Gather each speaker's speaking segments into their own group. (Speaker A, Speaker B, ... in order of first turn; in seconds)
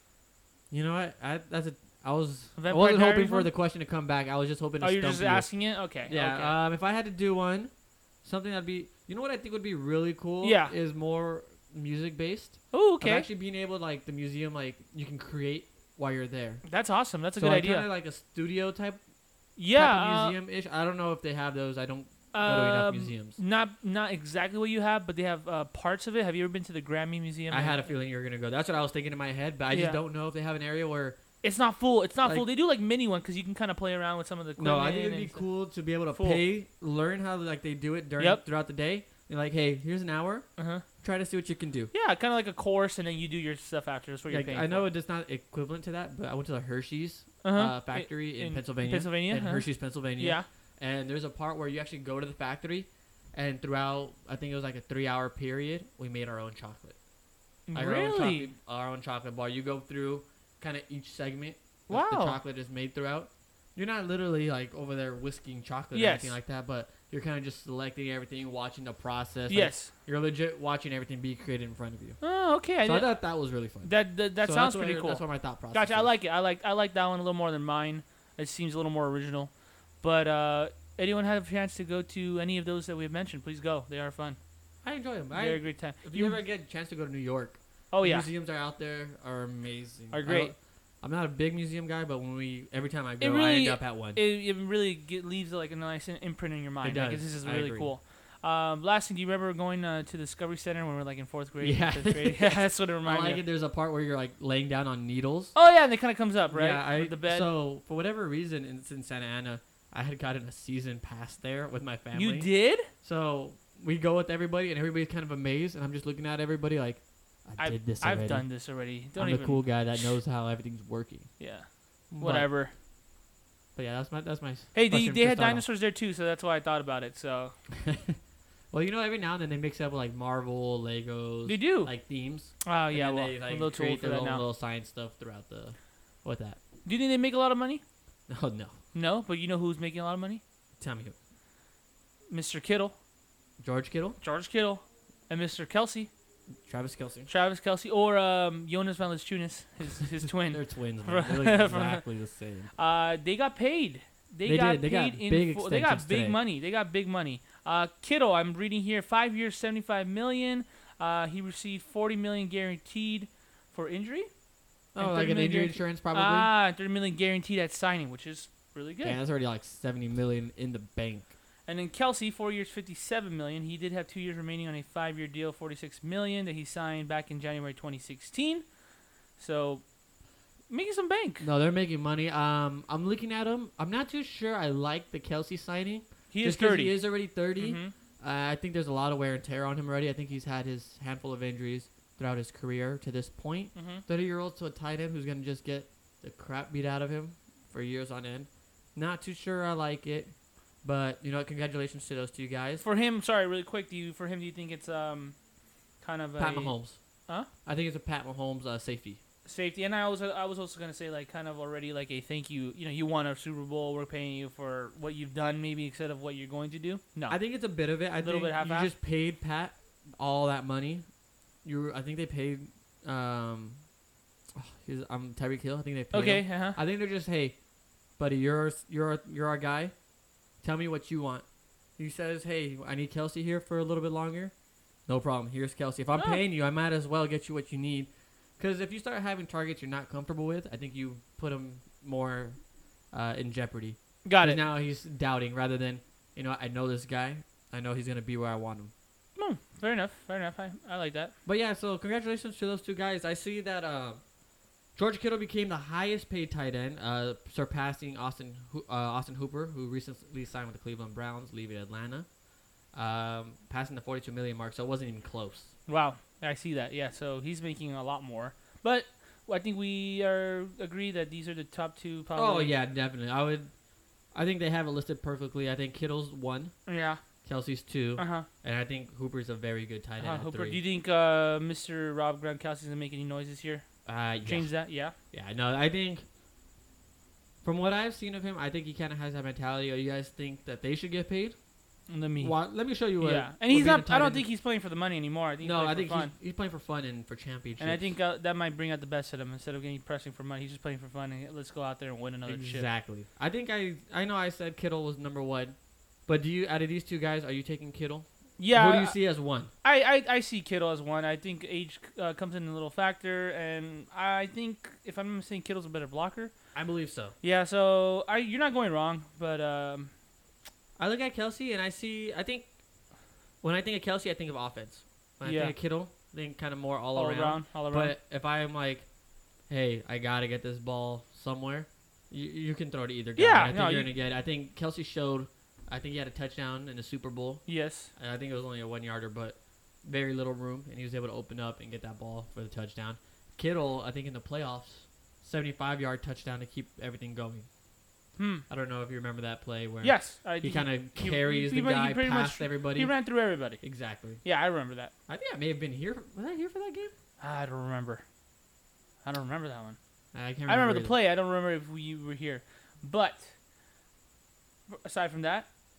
Speaker A: 0.7-16.6, 17.3-19.0, 19.7-23.4, 27.5-31.2, 32.2-32.5, 34.6-41.9, 44.3-57.0, 57.7-72.2, 72.8-76.1, 84.8-94.2, 96.8-97.9, 101.6-105.5, 106.5-121.5, 122.1-122.5, 123.7-125.6, 127.8-128.2, 128.7-136.6, 138.3-138.8, 140.8-141.1, 143.6-144.2, 146.6-147.3, 150.2-152.7, 154.4-156.4, 164.9-166.5, 169.0-171.3, 181.4-202.8, 206.4-209.2, 217.3-221.1, 221.6-223.9, 224.5-227.6, 228.1-230.0, 230.6-248.9, 251.4-254.2, 254.9-262.4, 262.9-265.8, 272.3-280.8, 284.0-286.2, 287.6-291.7, 292.3-294.5, 295.6-298.1, 302.4-309.7, 316.7-317.3, 321.0-322.7, 323.6-347.7, 348.7-354.4, 355.3-357.1, 360.3-361.1
Speaker B: 2.5-3.5, 4.8-6.5, 10.4-10.7, 12.7-13.3, 16.6-17.9, 19.6-20.4, 22.3-27.8, 29.7-30.0, 31.4-35.5, 36.1-36.4, 40.6-40.8, 41.9-44.9, 47.4-50.5, 57.7-58.5, 61.9-62.4, 65.9-66.4, 69.5-69.9, 72.2-73.2, 73.8-84.4, 85.3-86.4, 87.9-88.3, 90.1-90.5, 93.2-103.4, 105.5-107.5, 112.1-112.9, 117.6-120.1, 121.4-122.7, 124.7-127.6, 131.4-134.4, 136.8-137.8, 138.9-140.4, 142.3-142.9, 144.2-146.1, 147.3-152.1, 152.7-164.3, 164.9-169.2, 171.7-178.7, 179.3-180.0, 180.7-181.5, 186.3-187.9, 193.7-194.0, 202.8-205.4, 206.0-207.5, 209.4-217.4, 218.2-218.9, 226.1-226.8, 244.2-244.6, 249.3-251.3, 265.9-272.8, 276.9-277.2, 278.1-278.5, 280.2-285.1, 292.1-296.3, 297.8-302.9, 308.6-316.6, 317.4-320.1, 325.4-325.7, 327.1-328.1, 333.4-334.1, 337.7-338.1, 348.4-348.6, 350.0-355.1, 357.4-358.2, 359.2-360.0, 360.6-363.5, 364.9-365.7